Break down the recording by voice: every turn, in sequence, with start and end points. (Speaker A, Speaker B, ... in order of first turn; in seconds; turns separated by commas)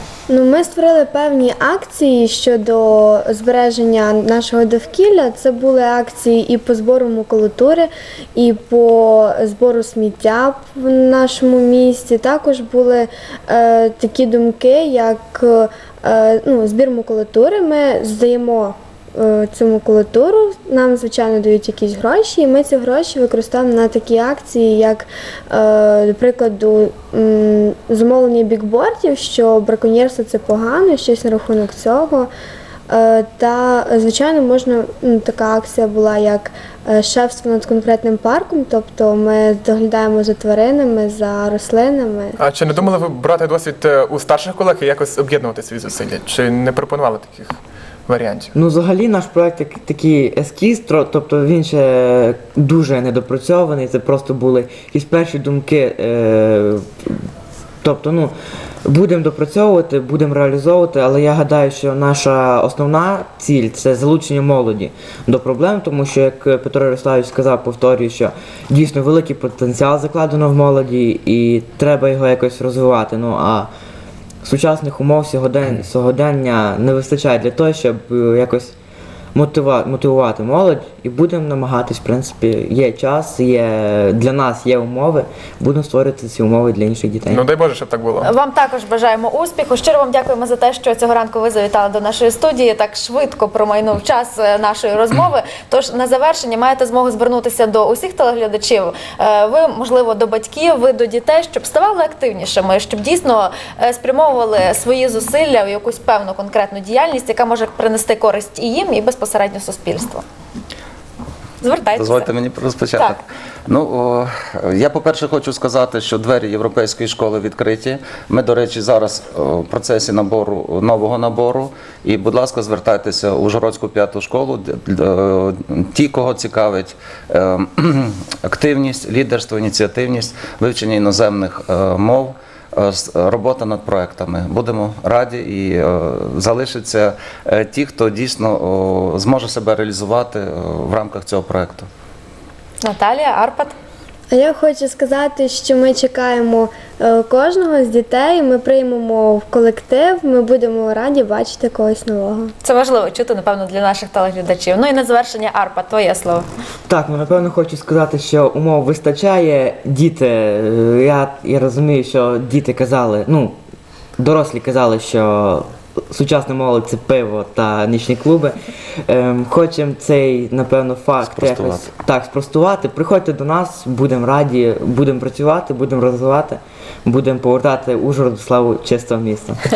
Speaker A: 0.3-32.3, Speaker A: 32.9-42.4, Speaker B: 42.4-48.5, Speaker C: 48.5-57.3, Speaker C: 57.8-58.4, Speaker C: 58.9-73.7, Speaker C: 74.4-78.8, Speaker C: 79.3-87.5, Speaker B: 87.3-88.3, Speaker D: 88.2-110.2, Speaker D: 111.6-112.3, Speaker E: 112.0-141.9, Speaker D: 142.8-143.8, Speaker A: 144.3-152.5, Speaker D: 152.6-156.5, Speaker C: 156.9-163.6, Speaker C: 164.2-179.6, Speaker E: 171.3-171.9